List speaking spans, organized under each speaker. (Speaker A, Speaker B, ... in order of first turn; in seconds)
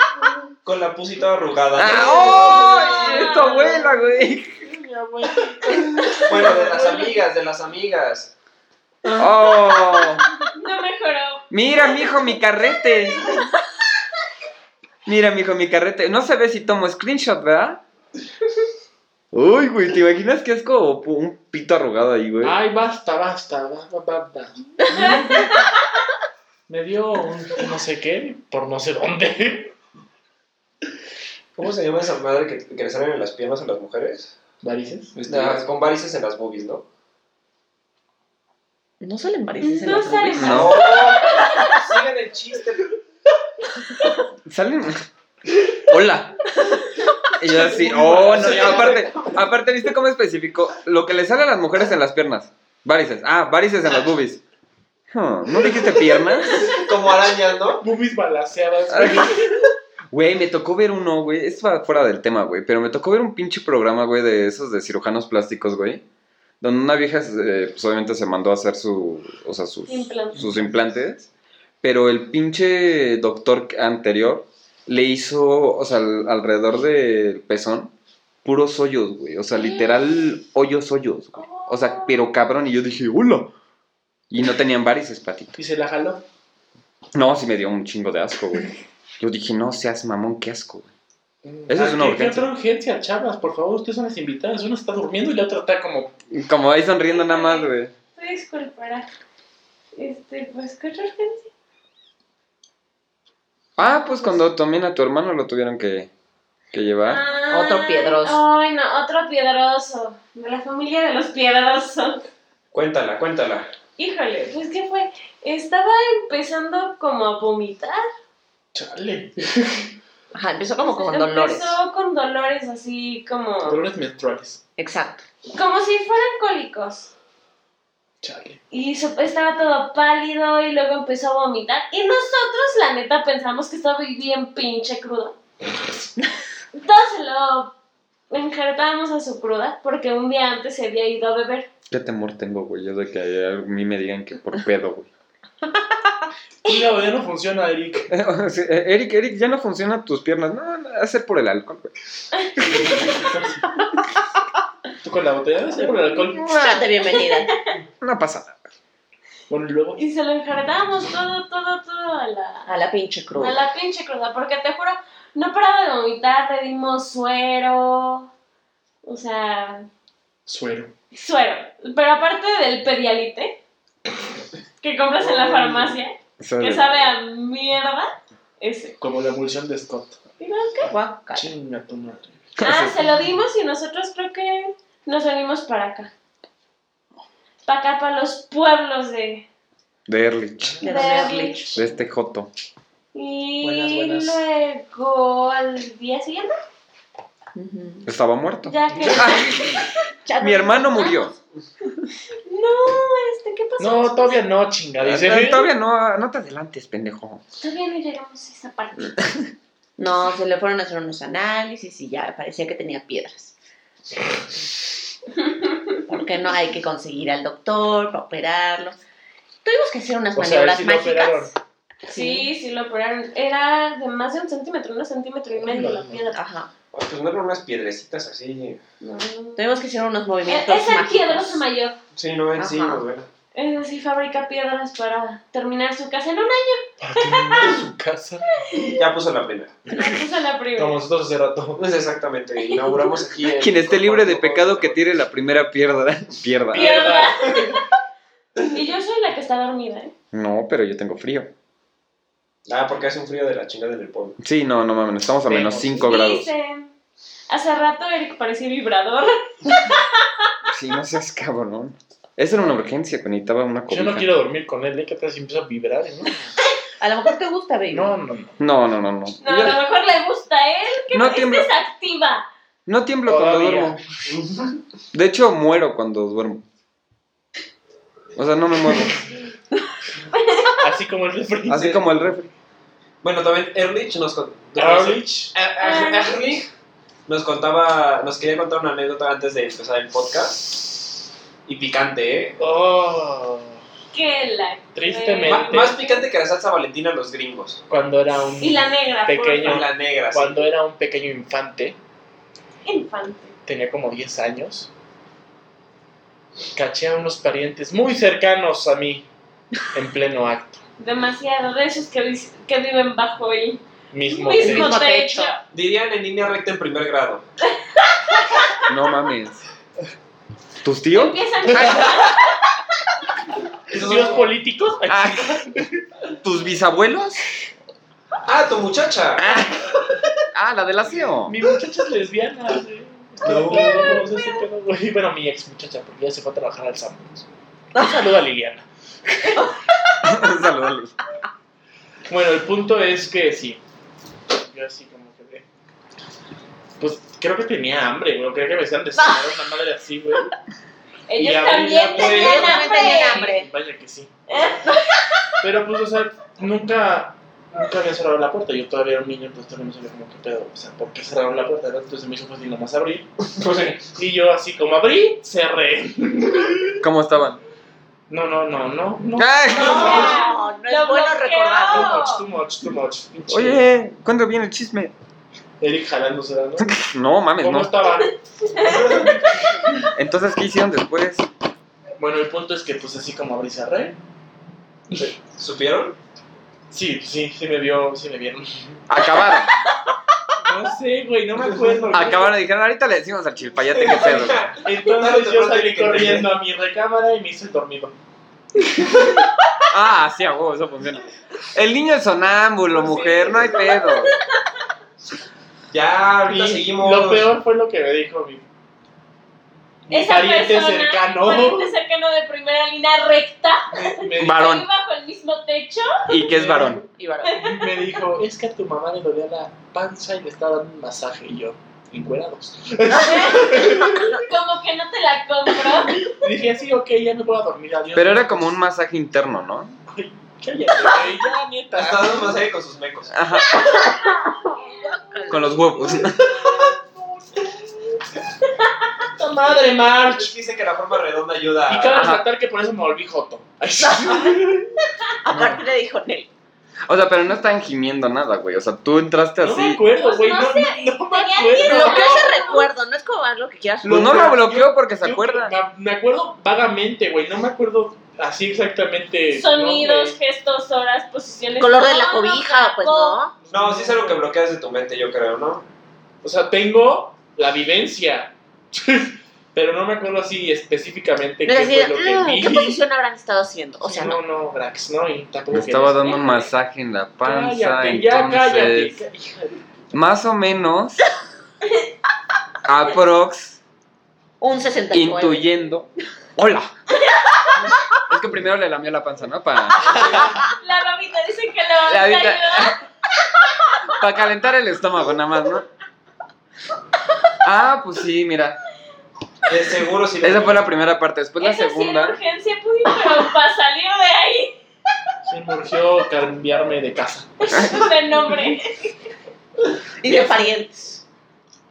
Speaker A: 0.6-2.6, 6.1-8.3, 31.6-34.3, 35.2-36.9, 40.4-42.9, 48.3-49.2, 56.6-57.8, 112.7-113.7, 226.9-228.8, 232.2-233.3, 239.0-239.8, 241.8-245.0, 252.7-254.4, 274.3-274.8, 281.7-282.0, 283.2-286.7, 287.3-290.9, 291.7-292.6, 295.5-297.8, 299.6-300.6, 315.7-317.4, 323.9-324.5, 328.4-329.6, 333.4-334.3, 352.1-352.6, 363.4-364.1, 378.9-379.2, 385.2-386.2, 393.9-396.5, 405.9-407.5, 431.9-433.3, 439.7-442.3, 463.7-465.9, 499.7-500.9
Speaker B: 1.8-4.7, 9.2-10.2, 11.5-13.5, 15.1-17.8, 19.3-22.6, 35.3-35.6, 40.4-40.8, 44.5-45.0, 45.7-46.4, 47.4-54.4, 55.1-56.7, 58.9-59.6, 60.1-66.0, 66.6-71.3, 71.8-77.9, 78.4-83.5, 84.3-85.5, 87.1-90.9, 91.7-92.5, 96.3-97.9, 103.8-106.1, 106.7-107.2, 141.9-145.1, 148.1-151.9, 152.6-153.0, 156.4-156.9, 158.0-158.6, 176.4-177.1, 182.6-183.0, 190.1-190.8, 191.8-192.5, 198.1-199.8, 200.4-201.3, 205.0-207.4, 243.6-247.1, 250.3-251.5, 254.4-256.5, 260.7-264.3, 268.6-269.8, 271.1-271.7, 272.9-274.0, 275.1-276.6, 278.4-279.3, 281.7-282.5, 318.9-319.6, 320.8-322.4, 325.1-325.7, 326.4-327.5, 329.4-331.6, 340.2-341.1, 367.0-367.6, 369.4-370.2, 373.5-375.1, 376.8-378.0, 380.2-381.5, 389.1-389.7, 392.1-394.7, 399.9-404.4, 414.4-414.9, 416.3-417.1, 428.1-430.0, 433.3-433.8, 435.5-436.6, 442.1-442.4, 447.1-450.0, 454.0-455.8, 475.7-479.2, 480.1-481.2, 482.9-483.8, 485.1-486.9, 488.3-490.5, 492.1-493.0, 494.1-495.9, 497.6-498.8, 500.4-502.4, 507.7-508.1
Speaker C: 2.2-4.0, 10.5-12.3, 12.9-13.5, 39.6-41.8, 69.9-70.6, 79.6-79.9, 81.4-82.2, 97.1-99.1, 100.0-101.5, 107.1-112.2, 114.0-118.1, 120.8-123.8, 125.5-127.1, 128.7-135.4, 136.7-137.7, 138.3-141.7, 152.3-153.2, 157.0-157.7, 160.0-162.7, 163.3-168.3, 169.0-169.9, 171.1-173.6, 174.8-179.0, 180.4-180.9, 182.6-186.1, 187.7-189.4, 190.8-191.8, 193.1-196.6, 198.7-199.9, 202.5-204.4, 207.6-209.3, 215.4-216.0, 222.1-226.4, 229.0-229.7, 230.5-232.0, 233.5-237.8, 238.6-239.0, 239.9-241.0, 242.6-243.0, 246.7-247.8, 248.6-250.1, 256.0-256.9, 257.5-260.5, 269.4-272.5, 280.3-280.8, 285.8-286.4, 294.1-296.2, 298.6-299.8, 302.9-303.5, 311.0-315.6, 318.0-318.8, 321.1-322.6, 351.3-353.5, 354.5-355.3, 369.8-372.4, 378.1-379.3, 403.0-404.4, 410.1-416.3, 417.5-417.9, 423.2-426.3, 450.1-452.9, 459.5-463.4, 476.2-476.7, 490.2-493.0, 501.6-504.8, 507.6-509.2
Speaker D: 2.7-3.4, 4.5-7.1, 9.1-10.1, 22.4-25.5, 26.7-29.8, 34.6-35.2, 47.6-49.3, 57.8-59.6, 85.6-86.2, 91.4-96.1, 118.7-119.9, 123.6-124.6, 128.2-128.6, 146.6-148.1, 153.1-153.7, 155.0-156.5, 159.5-160.0, 170.5-170.9, 175.2-176.0, 179.0-180.2, 181.3-182.5, 190.6-191.0, 193.6-194.4, 198.9-199.2, 203.8-205.7, 220.3-221.5, 225.5-226.3, 237.0-238.5, 240.8-241.8, 246.7-247.8, 255.5-256.1, 263.9-266.5, 267.9-268.6, 273.3-274.0, 280.8-282.1, 284.8-285.5, 292.6-293.8, 294.9-296.0, 297.9-302.0, 303.7-304.9, 306.7-309.3, 309.9-310.8, 314.1-315.0, 323.9-326.3, 331.4-338.9, 342.3-343.8, 344.5-345.7, 347.0-350.5, 351.4-354.3, 355.6-363.3, 364.1-367.0, 368.3-370.4, 371.8-373.9, 375.8-376.9, 377.6-380.1, 382.2-384.2, 386.9-389.1, 390.6-392.5, 393.9-398.2, 399.0-399.4, 406.5-408.6, 410.1-411.9, 413.9-414.7, 416.4-424.3, 426.2-428.8, 430.1-432.5, 436.1-438.2, 439.3-440.5, 441.9-445.0, 445.5-445.8, 449.6-452.6, 454.0-460.4, 463.6-464.5, 466.4-473.0, 474.1-476.4, 477.4-479.9, 505.5-508.0
Speaker E: 39.0-41.8, 107.5-108.4, 120.3-121.8, 124.8-125.2, 156.4-157.6, 162.7-163.6, 180.8-181.5, 190.8-191.9, 197.6-198.1, 200.3-201.2, 210.0-213.5, 216.1-219.0, 219.6-221.5, 222.1-222.5, 226.3-226.7, 229.6-231.6, 232.6-233.0, 267.0-268.1, 314.5-315.5, 352.2-353.7, 369.8-372.2, 417.1-417.6, 433.7-435.7, 444.1-444.5, 445.4-446.5, 451.8-454.6, 461.8-463.5, 471.6-474.4, 484.6-485.7, 510.2-511.2